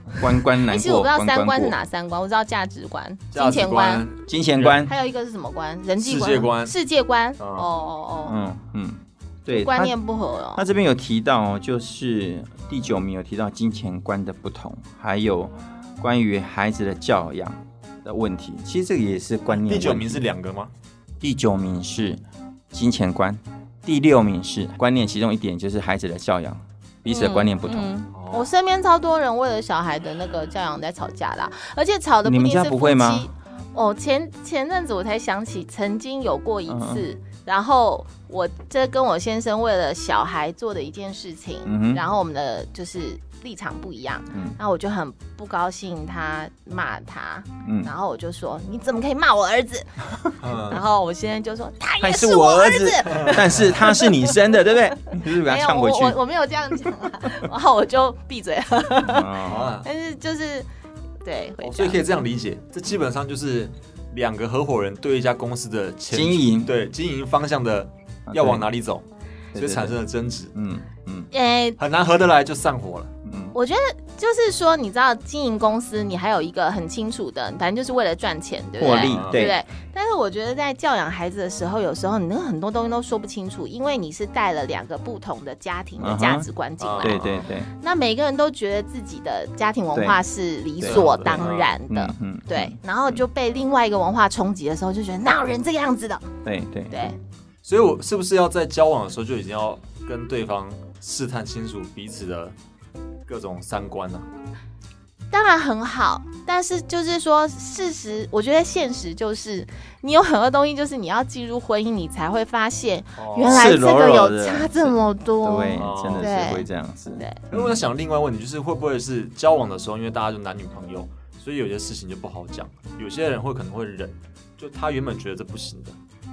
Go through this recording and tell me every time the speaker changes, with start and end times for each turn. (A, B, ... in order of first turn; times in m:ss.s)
0:00.2-0:01.8 A
0:00.7-0:04.1 B
0:03.3-0:04.9 C
0:04.3-0:04.9 A
0:04.8-0:08.4 B
0:06.0-0:06.7 C
0:07.4-0:07.7 C
0:08.3-0:10.0 A
0:09.5-0:10.6 B
0:10.6-0:20.2 A
0:19.5-0:20.7 C
0:21.2-0:27.9 A
0:27.1-0:54.4 B
0:28.1-0:28.5 C
0:32.2-0:33.3 A
0:36.7-0:37.0 A
0:41.7-0:42.0 A
0:47.6-0:47.9 A
0:50.4-0:50.8 C
0:52.0-0:56.2 A
0:53.1-0:53.4 C
0:55.2-1:00.7 B
0:59.0-0:59.8 A
0:59.5-0:59.9 C
1:01.2-1:02.1 B
1:01.6-1:10.5 C
1:06.1-1:06.7 A
1:08.3-1:08.7 A
1:09.5-1:10.0 A
1:10.5-1:11.3 A
1:11.3-1:11.8 B
1:11.8-1:13.1 C
1:13.2-1:13.6 A
1:13.5-1:27.3 B
1:18.8-1:19.6 A
1:19.0-1:19.5 C
1:26.0-1:26.5 A
1:26.8-1:27.4 C
1:27.0-1:27.7 A
1:27.8-1:36.3 B
1:29.9-1:30.2 A
1:30.8-1:33.2 A
1:30.8-1:31.8 C
1:36.4-1:37.1 A
1:36.9-1:37.2 B
1:37.6-1:42.6 C
1:43.3-1:44.3 C
1:45.3-1:56.7 B
1:53.2-1:53.7 C
1:53.5-1:57.8 A
1:55.8-1:56.3 C
1:57.5-2:06.0 C